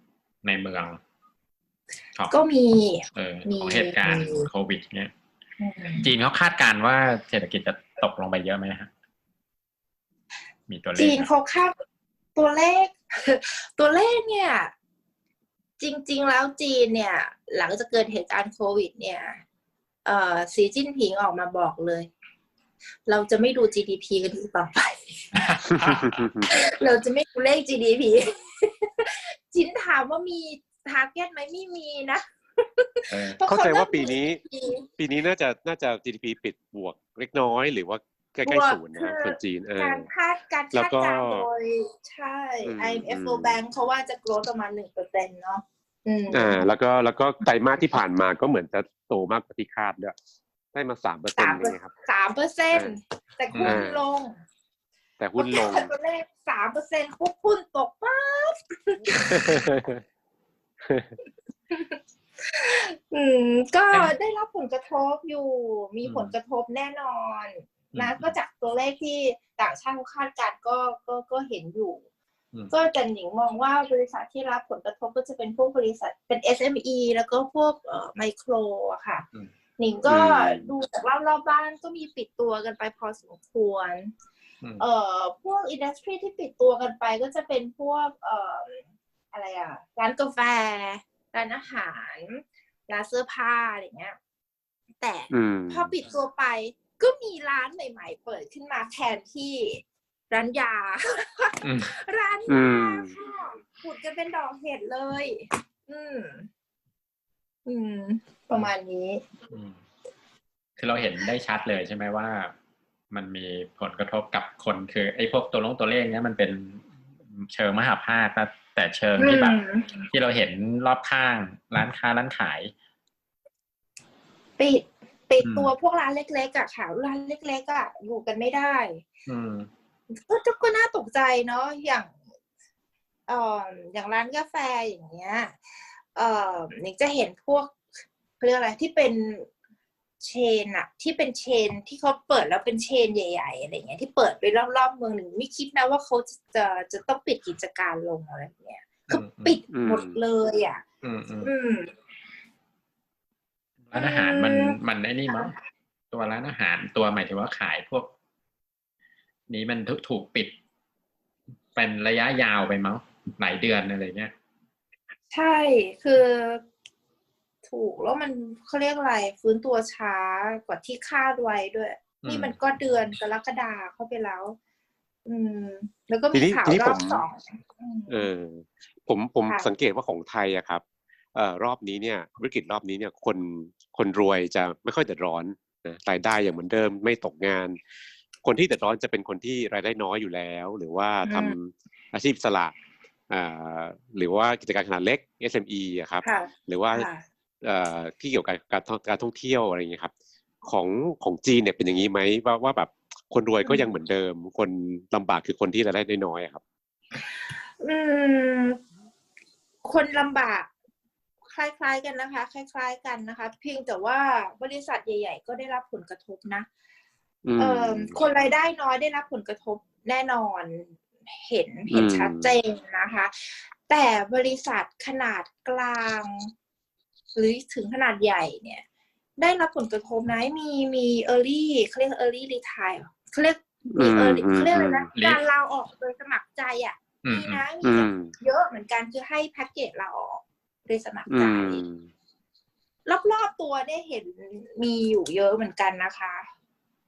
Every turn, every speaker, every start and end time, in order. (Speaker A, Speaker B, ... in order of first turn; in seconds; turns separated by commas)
Speaker A: 0.4-1.0, Speaker B: 2.3-4.5, Speaker A: 3.1-5.1, Speaker B: 5.6-6.1, Speaker A: 5.9-8.9, Speaker A: 10.7-11.3, Speaker B: 10.9-11.7, Speaker B: 12.3-14.7, Speaker B: 15.8-19.4, Speaker B: 20.0-22.1, Speaker B: 23.1-25.1, Speaker A: 25.3-26.3, Speaker C: 25.8-26.5, Speaker B: 26.5-34.9, Speaker A: 33.1-33.4, Speaker C: 33.5-34.4, Speaker C: 35.0-40.1, Speaker B: 38.4-46.7, Speaker C: 40.7-41.5, Speaker C: 42.6-43.6, Speaker C: 46.3-50.1, Speaker C: 50.7-51.9, Speaker B: 51.4-54.4, Speaker C: 52.7-53.0, Speaker A: 53.5-53.8, Speaker C: 53.6-54.0, Speaker C: 55.2-55.9, Speaker B: 55.4-59.6, Speaker C: 59.3-60.0, Speaker C: 60.8-61.1, Speaker B: 61.7-72.0, Speaker A: 66.0-66.3, Speaker A: 67.9-68.3, Speaker B: 72.7-79.2, Speaker B: 79.8-84.1, Speaker A: 80.1-80.7, Speaker B: 84.8-94.2, Speaker B: 95.0-106.5, Speaker C: 95.3-95.9, Speaker A: 101.6-101.9, Speaker C: 102.5-103.2, Speaker B: 107.7-109.2, Speaker A: 109.5-109.8, Speaker A: 110.8-112.5, Speaker A: 113.1-122.7, Speaker B: 119.2-120.0, Speaker B: 124.6-129.1, Speaker A: 125.4-125.7, Speaker A: 129.2-129.7, Speaker B: 130.1-132.1, Speaker B: 133.3-135.6, Speaker B: 136.1-137.8, Speaker B: 138.4-139.5, Speaker B: 140.2-150.8, Speaker A: 149.1-149.6, Speaker C: 149.7-150.2, Speaker A: 151.0-151.5, Speaker B: 151.4-151.9, Speaker A: 153.9-155.6, Speaker B: 153.9-154.8, Speaker A: 156.1-158.1, Speaker A: 159.5-160.5, Speaker A: 161.7-164.3, Speaker B: 165.3-166.6, Speaker B: 167.6-174.6, Speaker A: 172.2-172.6, Speaker B: 175.2-178.3, Speaker C: 176.3-177.2, Speaker C: 178.1-180.8, Speaker C: 181.3-187.8, Speaker C: 188.4-192.7, Speaker B: 191.2-191.5, Speaker C: 193.3-197.1, Speaker B: 196.2-197.2, Speaker C: 197.6-200.1, Speaker C: 200.6-206.6, Speaker B: 203.6-203.9, Speaker B: 207.8-208.8, Speaker B: 209.8-210.7, Speaker B: 211.4-216.7, Speaker C: 217.4-218.2, Speaker B: 217.6-226.5, Speaker C: 221.9-222.6, Speaker B: 227.3-228.8, Speaker B: 229.4-241.8, Speaker C: 233.9-235.1, Speaker A: 235.1-235.4, Speaker A: 237.2-237.6, Speaker C: 237.8-238.3, Speaker C: 241.3-242.1, Speaker B: 243.0-246.5